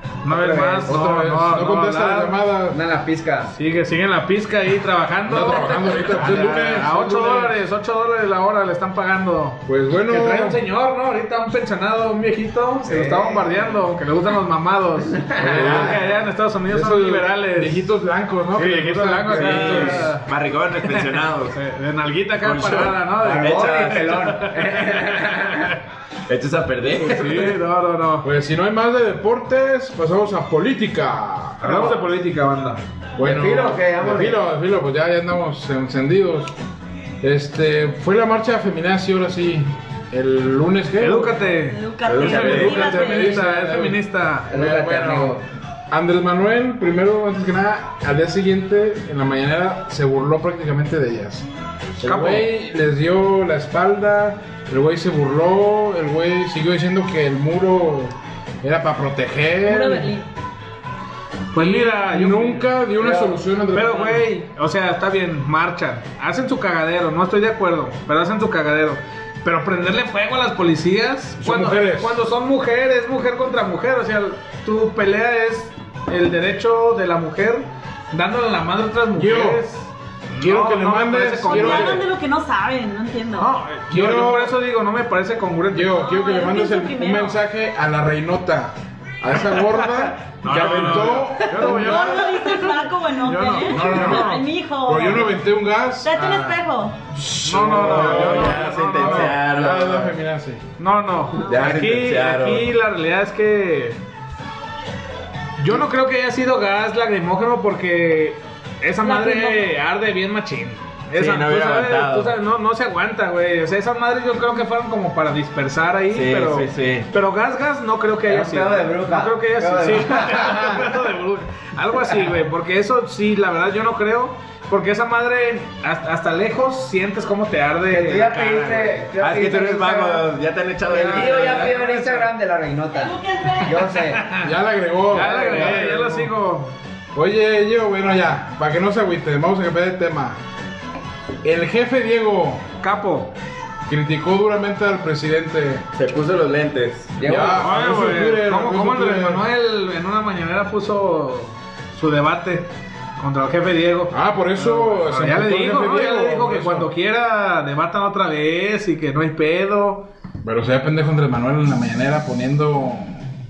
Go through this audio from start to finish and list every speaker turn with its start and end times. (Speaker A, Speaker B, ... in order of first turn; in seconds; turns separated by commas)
Speaker A: 0.2-2.4, Speaker B: 0.3-0.9, Speaker C: 0.5-2.8, Speaker B: 2.7-3.5, Speaker A: 3.5-17.9, Speaker C: 5.2-7.6, Speaker C: 9.7-10.6, Speaker B: 12.8-13.7, Speaker B: 15.2-15.8, Speaker C: 15.3-16.1, Speaker D: 15.5-15.9, Speaker C: 16.7-20.1, Speaker A: 18.5-20.3, Speaker D: 19.3-21.6, Speaker A: 20.8-25.8, Speaker D: 22.4-24.4, Speaker B: 23.2-25.7, Speaker D: 26.3-27.6, Speaker A: 27.0-28.3, Speaker C: 28.2-31.9, Speaker A: 31.6-32.8, Speaker C: 33.2-36.5, Speaker B: 33.2-34.4, Speaker C: 37.2-41.5, Speaker A: 41.0-44.5, Speaker E: 41.5-43.4, Speaker D: 42.0-42.8, Speaker C: 42.1-51.5, Speaker B: 44.5-45.4, Speaker C: 52.0-60.1, Speaker A: 52.0-52.5, Speaker E: 59.6-60.2, Speaker A: 61.5-62.9, Speaker C: 61.5-64.3, Speaker B: 63.0-63.4, Speaker A: 63.7-82.0, Speaker C: 71.4-72.2, Speaker C: 79.1-79.6, Speaker C: 80.4-82.0, Speaker E: 81.4-83.6, Speaker A: 83.4-86.0, Speaker C: 83.9-84.6, Speaker C: 85.7-92.3, Speaker E: 85.9-87.4, Speaker A: 89.4-94.4, Speaker D: 90.9-91.1, Speaker E: 91.6-95.4, Speaker C: 93.7-100.6, Speaker E: 96.0-97.0, Speaker A: 97.4-99.3, Speaker D: 97.6-100.2, Speaker A: 100.8-104.0, Speaker D: 101.4-102.7, Speaker A: 105.6-129.1, Speaker E: 109.0-109.8, Speaker D: 111.2-112.3, Speaker D: 116.1-117.1, Speaker B: 118.2-120.9, Speaker B: 127.9-130.3, Speaker D: 129.2-131.8, Speaker A: 130.9-132.3, Speaker B: 130.9-134.3, Speaker E: 133.0-134.0, Speaker A: 133.6-134.5, Speaker C: 134.4-136.3, Speaker A: 135.1-136.7, Speaker B: 135.2-136.0, Speaker C: 137.1-140.4, Speaker C: 141.4-142.7, Speaker A: 142.8-143.3, Speaker C: 143.9-145.8, Speaker D: 145.9-147.2, Speaker B: 147.2-147.7, Speaker C: 147.2-149.5, Speaker A: 147.3-160.1, Speaker C: 154.1-156.9, Speaker C: 160.4-163.2